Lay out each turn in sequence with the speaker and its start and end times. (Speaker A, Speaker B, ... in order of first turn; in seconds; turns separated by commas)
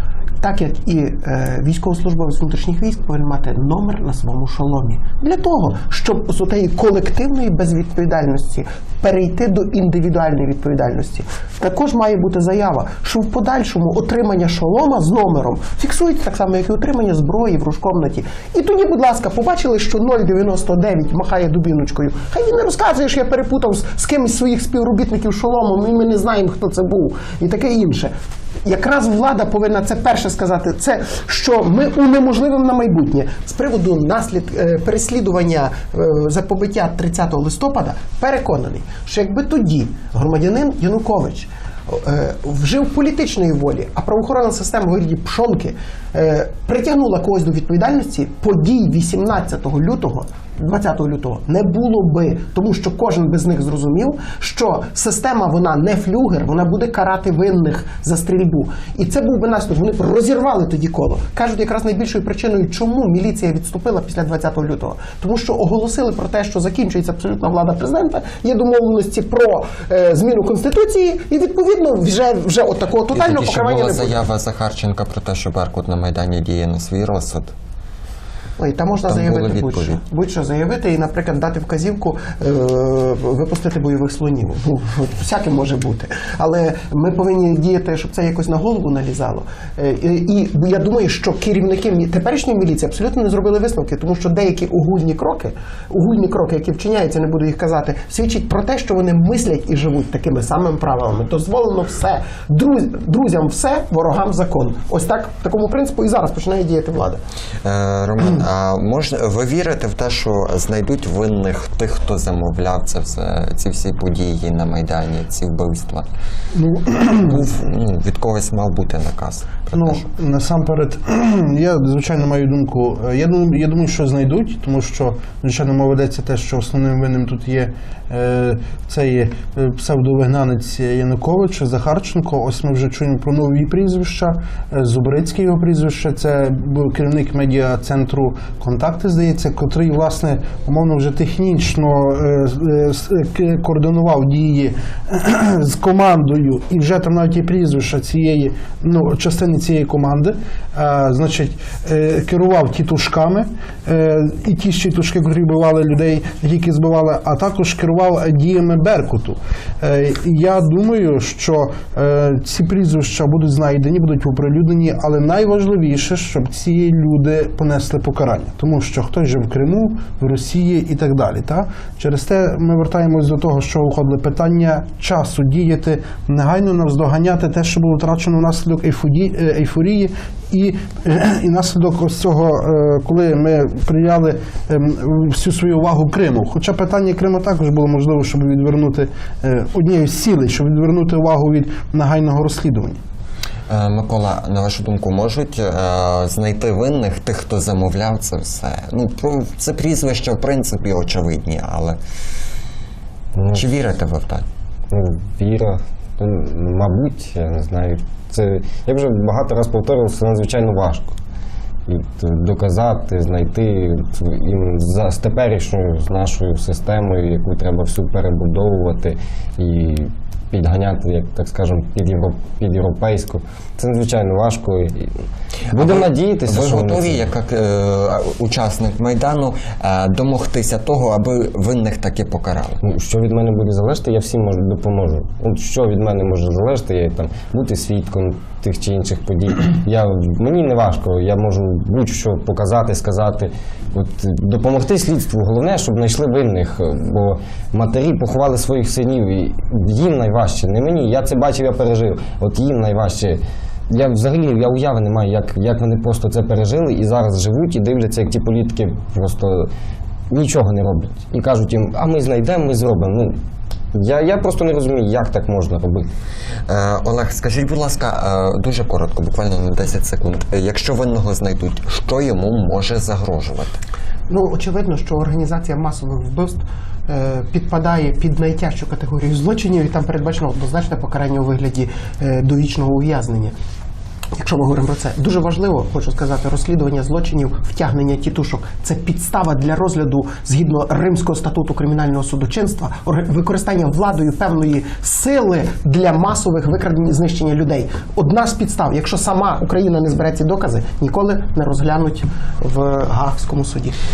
Speaker A: 0.4-28.1, Speaker A: 28.6-74.1, Speaker B: 73.1-77.5, Speaker A: 78.6-107.2, Speaker B: 79.1-80.0, Speaker B: 107.6-116.1, Speaker C: 116.5-117.4, Speaker B: 117.1-120.1, Speaker C: 119.8-193.0, Speaker B: 193.7-202.0, Speaker D: 203.3-203.7, Speaker B: 203.5-204.4, Speaker D: 204.9-211.2, Speaker D: 211.9-227.2, Speaker B: 225.7-232.8, Speaker D: 232.8-259.7, Speaker D: 260.3-263.4, Speaker D: 263.9-266.1, Speaker B: 266.7-273.8, Speaker A: 274.3-283.5, Speaker A: 284.4-304.0